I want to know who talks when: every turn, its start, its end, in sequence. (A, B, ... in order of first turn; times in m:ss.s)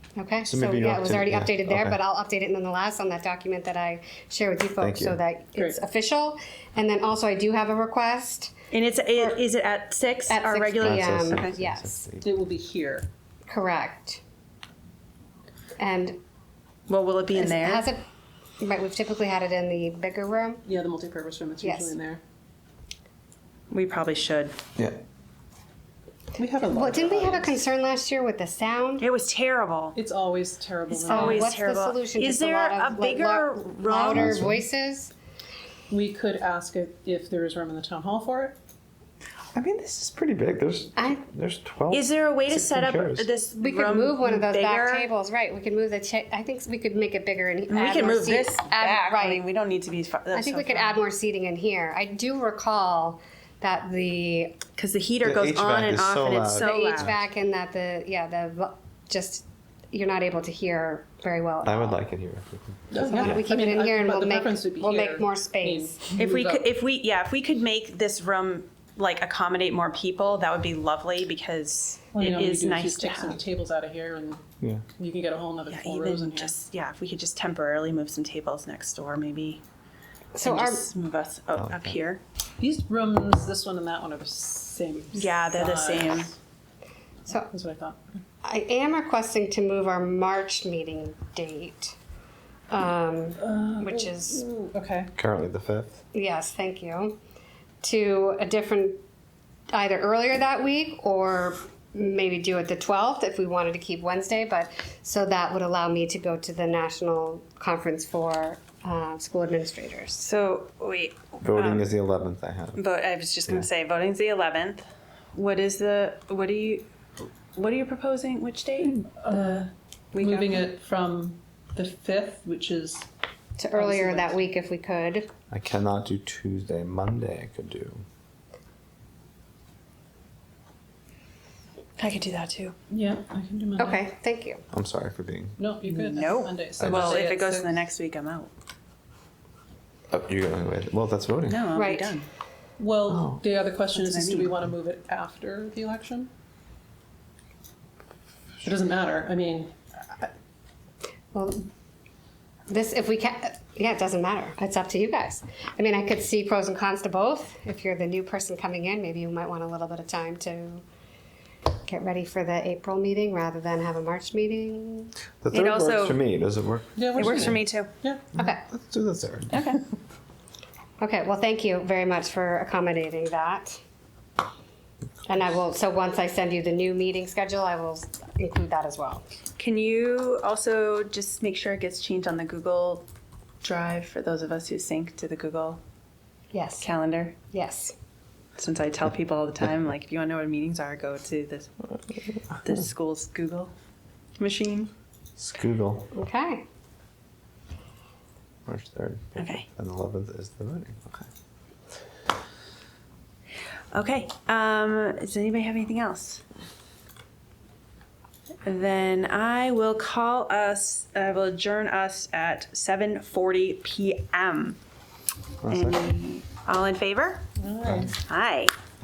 0:00.2-0:08.5 A
0:00.4-0:02.0 B
0:04.8-0:05.2 B
0:08.7-0:11.6 C
0:10.3-0:12.1 A
0:10.8-0:12.3 B
0:12.2-0:13.1 D
0:13.5-0:14.2 A
0:15.8-0:16.2 A
0:16.9-0:17.9 C
0:17.3-0:18.0 A
0:18.6-0:20.6 A
0:20.6-0:22.2 D
0:21.6-0:21.9 A
0:23.7-0:24.5 C
0:26.4-0:27.6 D
0:26.6-0:29.1 A
0:29.0-0:30.0 C
0:29.9-0:31.6 D
0:30.9-0:35.1 A
0:31.0-0:34.3 C
0:34.1-0:34.6 B
0:35.9-0:38.6 D
0:39.5-0:43.3 B
0:41.9-0:45.1 C
0:43.6-0:49.4 A
0:47.7-0:51.0 C
0:50.3-0:54.6 A
0:54.8-0:57.1 C
0:55.2-0:57.1 B
0:56.6-1:02.0 A
1:01.6-1:03.4 B
1:02.9-1:06.7 D
1:03.0-1:06.0 A
1:06.1-1:13.4 C
1:12.1-1:14.4 D
1:15.0-1:16.5 D
1:15.7-1:19.6 C
1:20.3-1:20.8 A
1:20.4-1:22.2 C
1:21.5-1:22.0 B
1:22.6-1:26.4 D
1:25.1-1:26.3 C
1:27.3-1:28.2 D
1:28.4-1:32.0 A
1:32.7-1:34.4 A
1:33.4-1:35.1 D
1:35.2-1:36.0 B
1:36.1-1:37.2 A
1:37.8-1:39.0 A
1:39.7-1:50.2 A
1:50.2-1:51.9 C
1:51.4-1:52.8 B
1:52.8-1:56.8 C
1:57.5-1:59.0 C
1:58.8-2:03.0 D
2:00.1-2:00.7 C
2:03.6-2:05.3 A
2:03.7-2:04.4 D
2:05.5-2:08.0 B
2:12.0-2:12.7 C
2:12.9-2:14.0 D
2:13.8-2:14.6 A
2:14.7-2:15.6 B
2:15.6-2:17.7 D
2:15.9-2:18.5 C
2:16.8-2:17.2 B
2:20.1-2:21.6 B
2:21.5-2:22.3 C
2:21.7-2:22.2 A
2:22.8-2:26.3 D
2:23.1-2:23.4 B
2:23.9-2:24.6 C
2:28.6-2:30.3 D
2:31.3-2:31.6 A
2:32.7-2:40.8 A
2:41.8-2:45.1 A
2:45.4-2:47.6 B
2:45.5-2:46.2 C
2:47.0-2:48.2 D
2:47.2-2:47.9 C
2:48.3-2:49.7 B
2:48.4-2:48.6 A
2:49.5-2:49.8 C
2:51.0-2:53.8 A
2:55.2-2:59.2 A
2:59.6-3:03.0 C
3:03.6-3:05.8 C
3:06.5-3:06.9 A
3:06.8-3:07.4 C
3:07.5-3:07.9 A
3:08.6-3:11.8 C
3:12.5-3:13.7 C
3:14.4-3:14.9 C
3:15.4-3:16.1 B
3:16.1-3:16.6 A
3:18.6-3:21.3 B
3:19.4-3:19.6 C
3:23.9-3:26.4 C
3:28.6-3:34.8 C
3:35.6-3:36.0 B
3:35.7-3:37.5 C
3:37.6-3:38.1 D
3:37.8-3:38.1 B
3:38.2-3:38.7 C